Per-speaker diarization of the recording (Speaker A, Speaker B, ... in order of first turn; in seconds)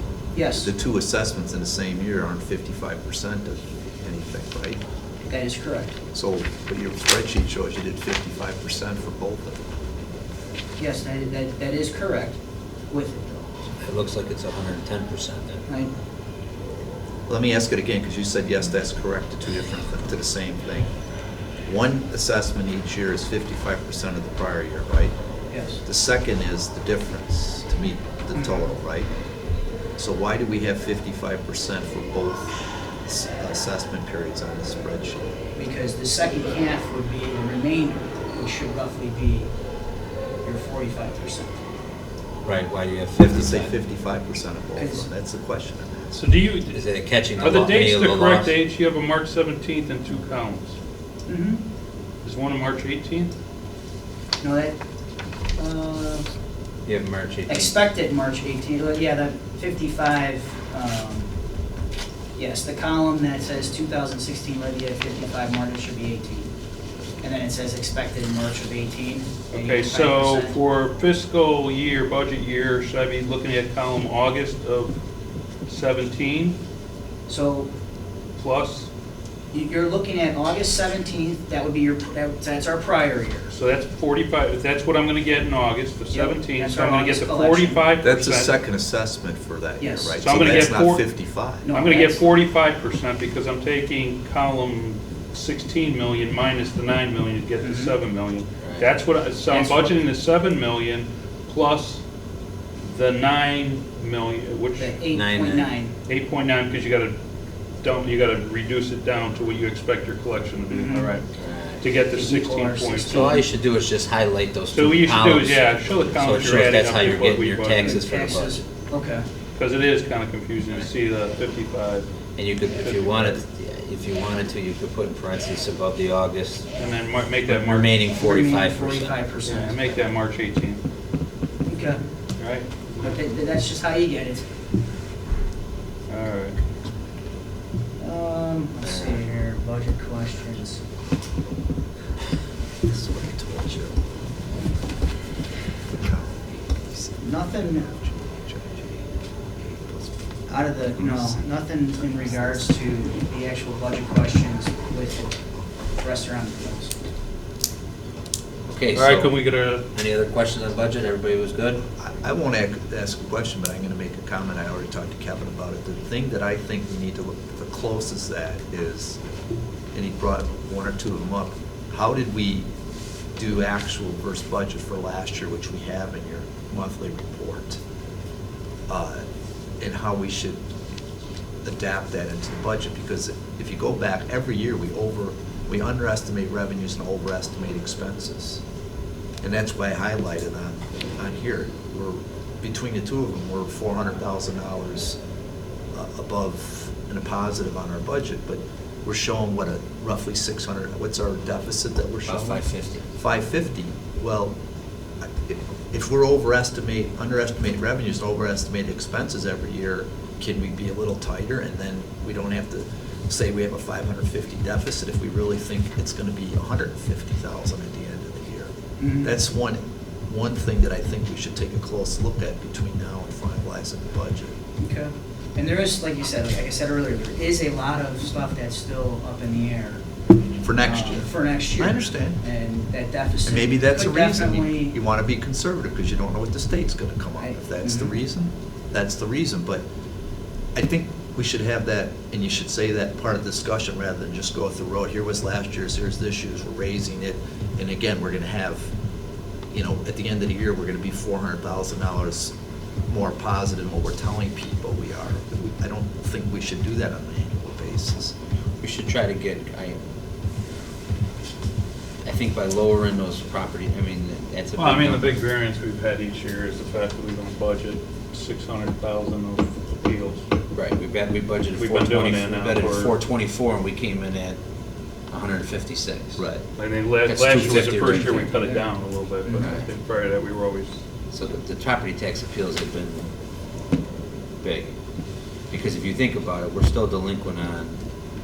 Speaker A: 0.3-0.7, 5.3-6.0, 10.8-12.4, 12.9-13.5, 15.7-15.9, 25.5-25.8, 28.3-28.8, 35.6-39.5, 40.4-41.6, 44.8-45.1, 51.3-51.6, 54.4-54.8, 55.5-56.3, 57.5-61.3, 62.4-66.5, 67.2-70.6, 77.3-77.7, 79.5-83.5, 86.1-88.0, 89.8-90.8, 91.6-92.2, 97.6-98.0, 99.5-100.0, 104.8-106.0, 110.7-111.2, 112.1-113.5, 117.8-119.3, 128.2-130.0, 131.7-132.0, 133.0-134.4, 138.0-140.8, 147.2-147.9, 150.5-155.3, 156.0-156.9, 219.0-219.3, 224.8-230.0, 230.8-235.0, 237.4-238.2, 278.2-278.9, 279.4-279.8
Speaker B: 0.6-4.8, 6.1-9.6, 17.3-20.9, 21.6-25.2, 25.8-29.1, 30.0-35.3, 43.2-46.3, 88.0-91.7, 142.8-144.0, 145.9-149.1, 149.6-150.2, 152.0-152.7, 162.0-169.2, 169.9-172.7, 173.4-177.8, 178.9-179.2, 179.8-180.6, 181.6-188.6, 189.4-195.2, 195.9-202.6, 203.2-204.6, 205.2-224.6, 230.6-232.4, 233.4-239.8, 240.8-248.9, 249.7-252.6, 253.1-258.4, 276.4-276.6
Speaker C: 13.8-15.7, 42.5-43.8, 46.7-48.5, 56.9-57.8, 98.6-98.9, 105.1-105.7, 111.4-111.9, 113.1-118.6, 122.4-126.7, 127.5-129.2, 138.8-139.2, 158.7-159.4, 159.9-161.8, 202.3-203.1, 258.8-260.0, 262.2-265.4, 270.7-274.6, 275.3-276.4, 277.2-278.5, 279.6-279.9, 281.3-283.3, 284.6-284.9, 285.7-287.9
Speaker D: 46.2-46.8, 47.4-50.8, 52.2-53.3, 69.5-75.0, 75.7-76.6, 78.4-78.9, 83.5-88.6, 90.2-91.0, 91.7-102.0, 102.8-105.0, 106.1-107.2, 107.8-113.4, 114.7-118.0, 119.6-122.1, 122.6-123.4, 126.8-128.0, 129.4-130.8, 132.4-132.7, 136.1-136.6, 158.9-159.8, 264.8-270.4, 271.8-273.1, 276.8-281.0